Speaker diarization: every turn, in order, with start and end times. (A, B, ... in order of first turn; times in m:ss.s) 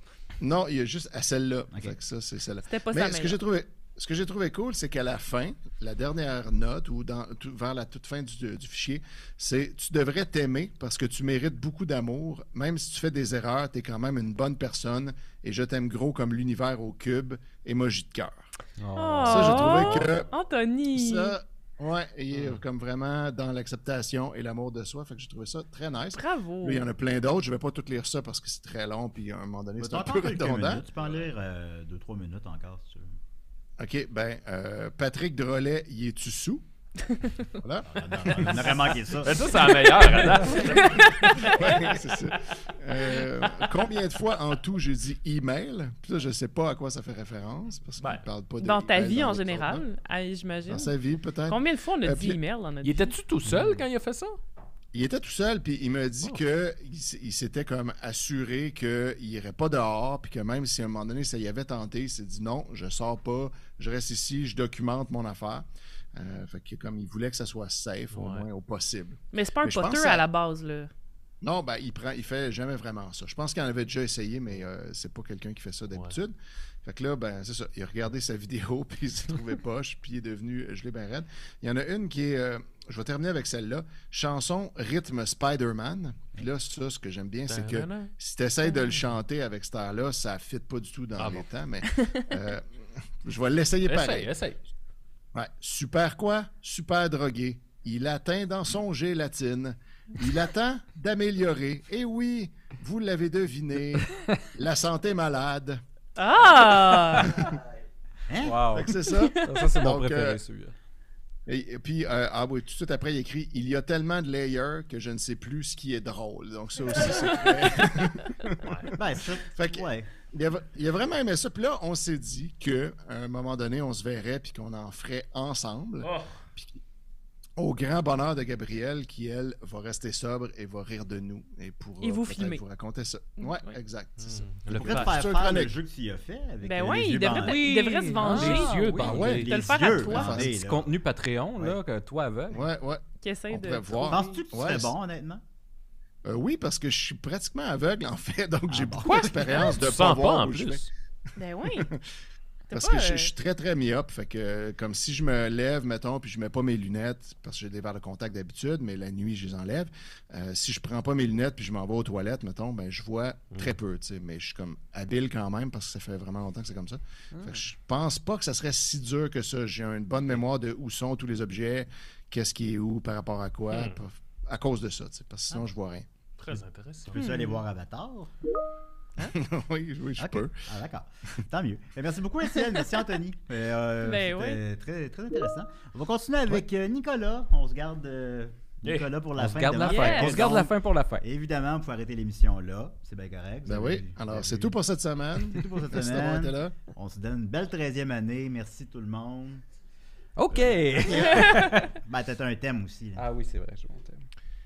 0:00.4-0:18.4 A
0:02.6-0:03.4 B
0:18.8-0:19.8 C
0:19.0-0:21.4 B
0:19.3-0:20.3 A
0:19.7-0:20.0 D
0:20.9-0:30.8 A
0:22.3-0:22.6 D
0:26.1-0:26.8 B
0:29.8-0:33.2 E
0:30.9-0:31.3 D
0:33.8-0:36.6 A
0:37.6-0:38.9 A
0:37.8-0:39.5 E
0:39.2-0:41.5 D
0:40.1-0:41.9 B
0:41.1-0:49.9 A
0:48.0-0:48.2 D
0:48.6-0:51.0 B
0:50.7-0:52.4 A
0:51.5-0:53.2 B
0:52.8-0:54.4 D
0:54.9-1:10.3 A
1:08.1-1:08.5 D
1:09.3-1:10.9 B
1:11.4-1:32.7 A
1:27.5-1:28.1 D
1:31.2-1:31.5 D
1:31.9-1:32.2 B
1:33.2-1:34.3 A
1:33.9-1:34.6 D
1:35.4-1:45.8 A
1:46.2-1:47.4 B
1:48.3-1:48.8 E
1:48.4-1:50.7 C
1:48.7-1:50.4 A
1:49.1-1:49.8 B
1:51.5-1:59.0 A
1:57.0-1:58.3 B
1:58.6-1:58.9 D
1:58.9-2:00.1 E
1:59.5-2:06.8 A
2:06.0-2:06.3 D
2:07.6-2:15.7 A
2:12.0-2:12.6 B
2:13.4-2:13.8 B
2:14.2-2:15.2 D
2:14.7-2:17.6 E
2:16.6-2:20.4 B
2:17.3-2:19.5 D
2:18.2-2:19.4 C
2:18.8-2:20.9 E
2:20.1-2:20.6 A
2:20.2-2:22.6 C
2:22.5-2:24.9 A
2:23.2-2:24.2 B
2:24.0-2:25.4 E
2:26.2-2:30.9 A
2:28.7-2:29.7 E
2:29.7-2:30.9 D
2:31.4-2:31.9 B
2:31.8-2:32.0 A
2:32.7-2:33.3 B
2:32.7-2:56.1 A
2:53.7-2:54.0 D
2:56.4-2:57.2 D
2:57.1-2:58.3 E
2:57.1-2:57.6 B
2:59.4-3:00.6 A
3:00.2-3:14.8 E
3:02.6-3:02.9 B
3:04.0-3:04.6 B
3:08.8-3:09.1 D
3:09.4-3:11.2 C
3:09.8-3:10.4 B
3:13.7-3:16.8 A
3:15.5-3:19.6 E
3:20.4-3:21.9 C
3:20.6-3:23.2 E
3:23.2-3:24.2 C